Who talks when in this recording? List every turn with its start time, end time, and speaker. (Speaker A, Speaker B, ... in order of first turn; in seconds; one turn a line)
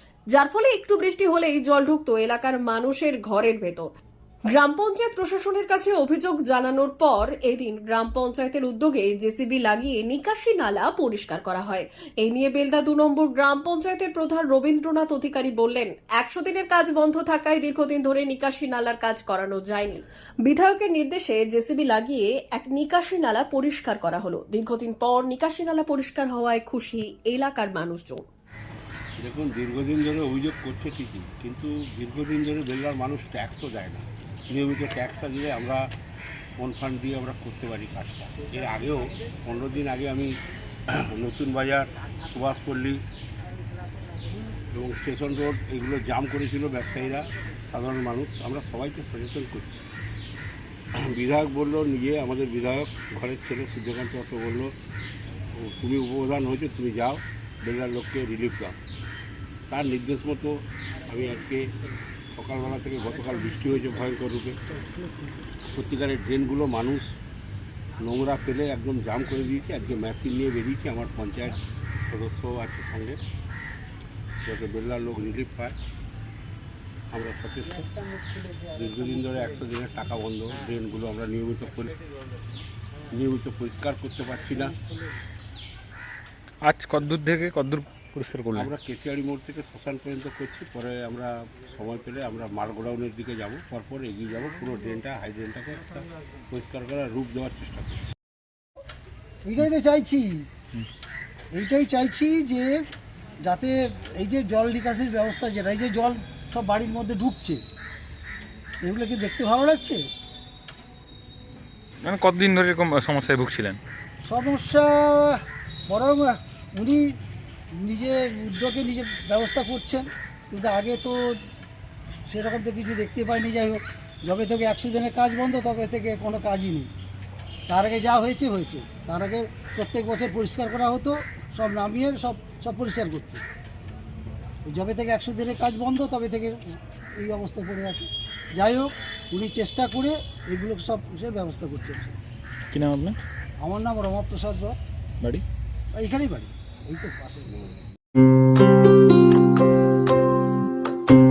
Speaker A: 0.3-3.9
Speaker A: 4.5-28.3
Speaker B: 29.2-35.8
Speaker B: 36.6-40.3
Speaker B: 40.9-43.0
Speaker B: 44.7-49.8
Speaker B: 51.0-54.7
Speaker B: 55.5-58.8
Speaker B: 59.7-61.7
Speaker B: 62.3-64.6
Speaker C: 64.9-65.2
Speaker B: 65.7-67.1
Speaker B: 68.0-73.2
Speaker B: 74.4-75.8
Speaker B: 77.1-82.0
Speaker B: 83.1-84.8
Speaker D: 86.6-88.7
Speaker B: 88.5-98.1
Speaker C: 99.4-100.5
Speaker C: 101.5-102.8
Speaker C: 103.4-107.6
Speaker C: 108.8-110.0
Speaker D: 112.0-113.8
Speaker C: 114.2-117.1
Speaker C: 117.8-121.4
Speaker C: 122.3-126.9
Speaker C: 127.7-133.4
Speaker C: 134.7-142.2
Speaker D: 142.7-143.2
Speaker C: 143.6-144.8
Speaker C: 146.0-147.6